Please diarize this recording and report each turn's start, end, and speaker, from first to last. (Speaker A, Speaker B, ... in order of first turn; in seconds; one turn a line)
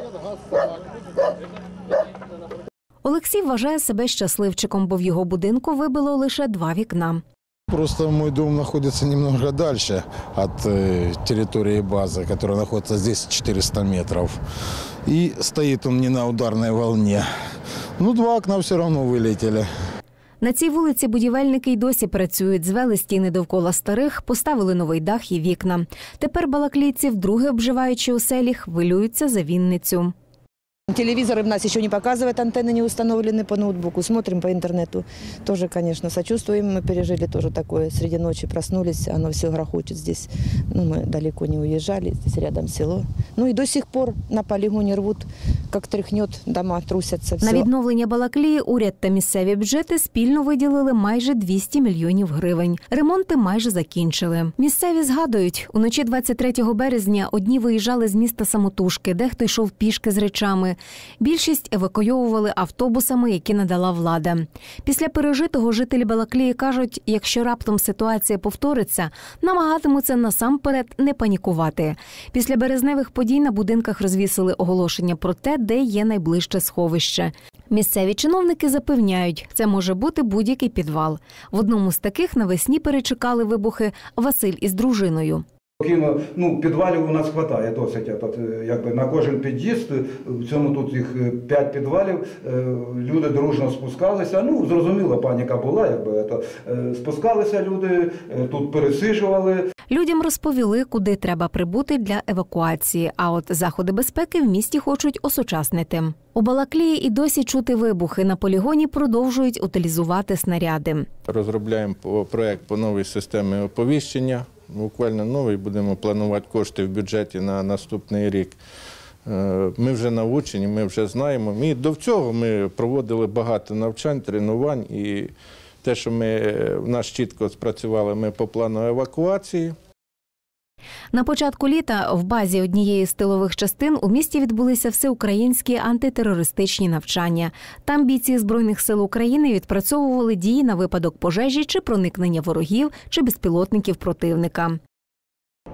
Speaker A: 3.0-7.2
Speaker B: 7.7-14.4
Speaker B: 15.1-17.3
Speaker B: 18.0-19.7
Speaker A: 20.4-30.1
Speaker C: 30.9-47.7
Speaker A: 47.4-85.4
Speaker D: 85.8-99.7
Speaker A: 99.9-111.1
Speaker E: 111.3-118.5
Speaker E: 119.2-125.3
Speaker E: 125.8-129.7
Speaker A: 131.1-144.8